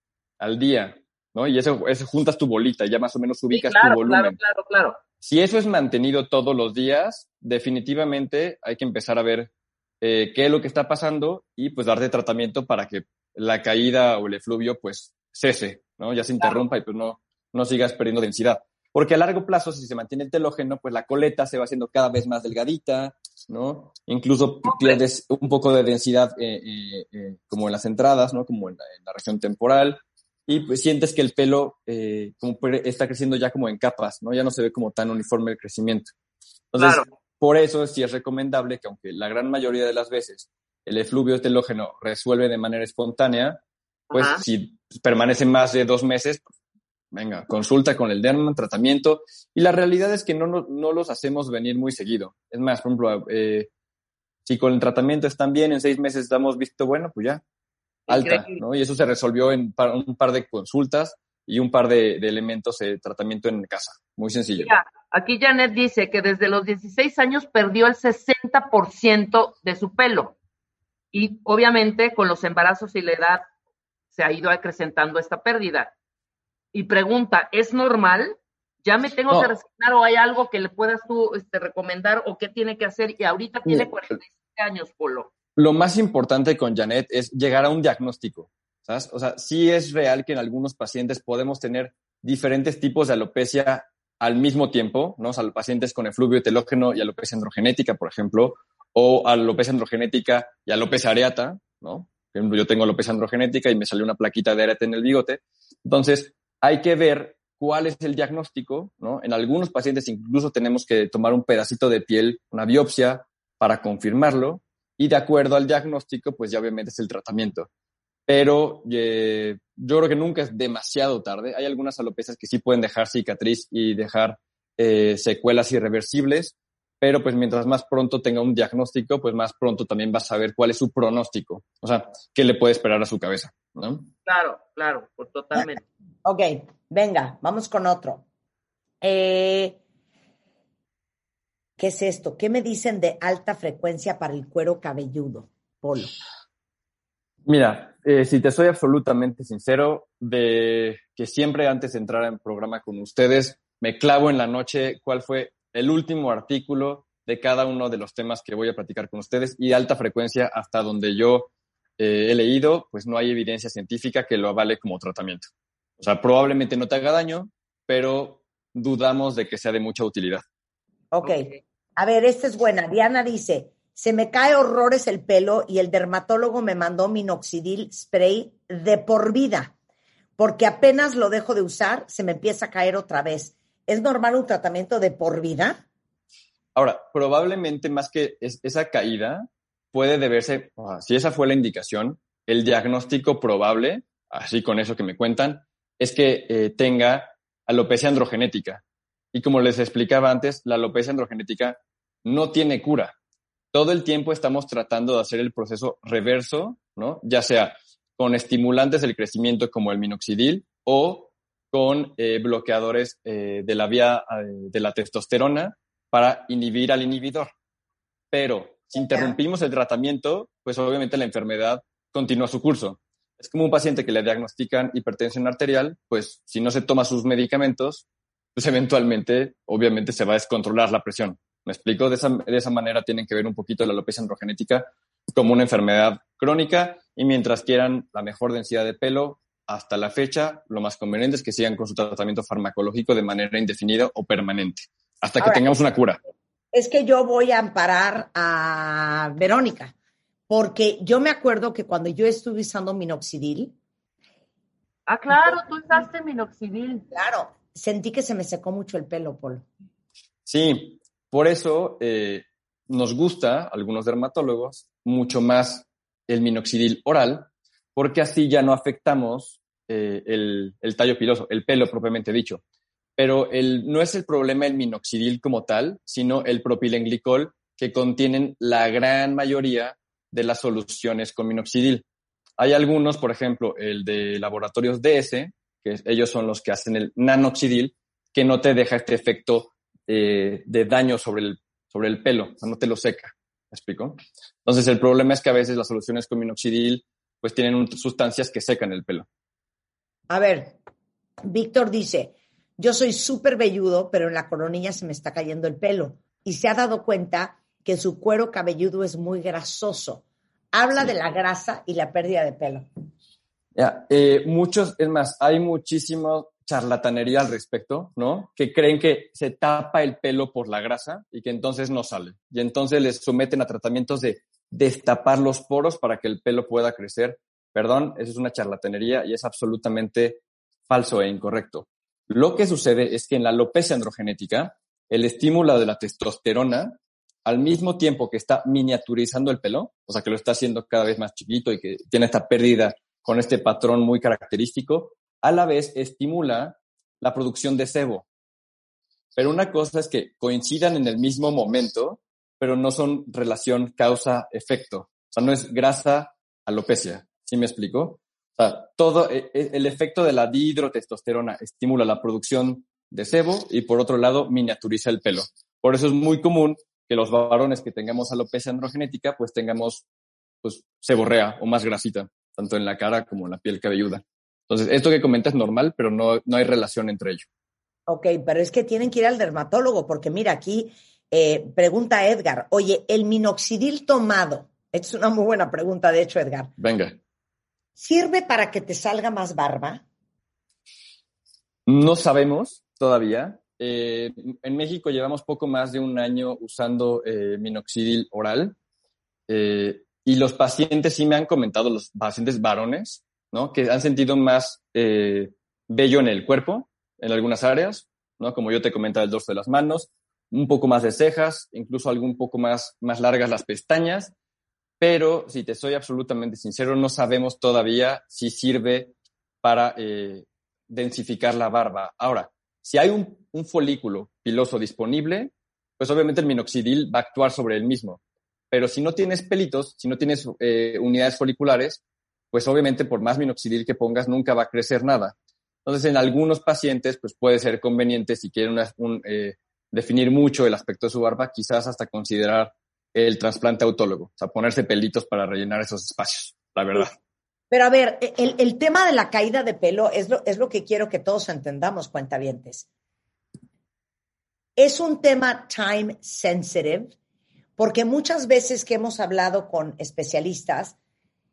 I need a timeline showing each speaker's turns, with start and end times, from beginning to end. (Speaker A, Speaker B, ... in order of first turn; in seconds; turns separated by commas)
Speaker A: 0.4-4.4, Speaker B: 3.5-5.0, Speaker A: 5.2-9.5, Speaker A: 10.0-36.1, Speaker B: 24.6-25.0, Speaker A: 36.7-43.6, Speaker B: 36.8-37.0, Speaker B: 44.1-44.4, Speaker A: 44.1-46.4, Speaker A: 47.1-53.7, Speaker A: 54.5-57.4, Speaker B: 58.1-58.6, Speaker A: 58.1-64.7, Speaker B: 64.6-70.4, Speaker B: 71.1-73.5, Speaker B: 74.1-75.9, Speaker B: 76.7-85.3, Speaker A: 85.6-117.7, Speaker A: 118.3-134.1, Speaker B: 134.3-135.8, Speaker C: 136.2-138.2, Speaker C: 139.0-139.8, Speaker C: 141.8-146.1, Speaker A: 147.5-165.5, Speaker A: 166.0-170.4, Speaker C: 171.1-179.7, Speaker B: 171.2-171.6, Speaker C: 180.4-185.8, Speaker A: 186.8-198.8, Speaker A: 199.3-203.2, Speaker A: 203.7-217.5, Speaker A: 218.3-246.2, Speaker C: 245.4-245.8, Speaker C: 246.7-249.9, Speaker C: 250.5-253.8, Speaker B: 255.1-257.1, Speaker C: 257.1-259.7, Speaker A: 260.5-272.6, Speaker A: 273.2-282.0, Speaker A: 282.6-299.3, Speaker C: 300.3-300.8, Speaker C: 301.5-312.9, Speaker A: 313.8-348.3, Speaker A: 349.4-370.1, Speaker A: 370.6-377.5, Speaker C: 378.1-386.7, Speaker A: 386.8-387.2, Speaker C: 388.0-390.0, Speaker A: 391.9-398.8, Speaker A: 399.5-414.3, Speaker A: 415.0-428.2, Speaker A: 428.7-435.3, Speaker A: 435.9-447.1, Speaker C: 447.7-452.9, Speaker C: 454.8-457.1, Speaker C: 457.8-461.0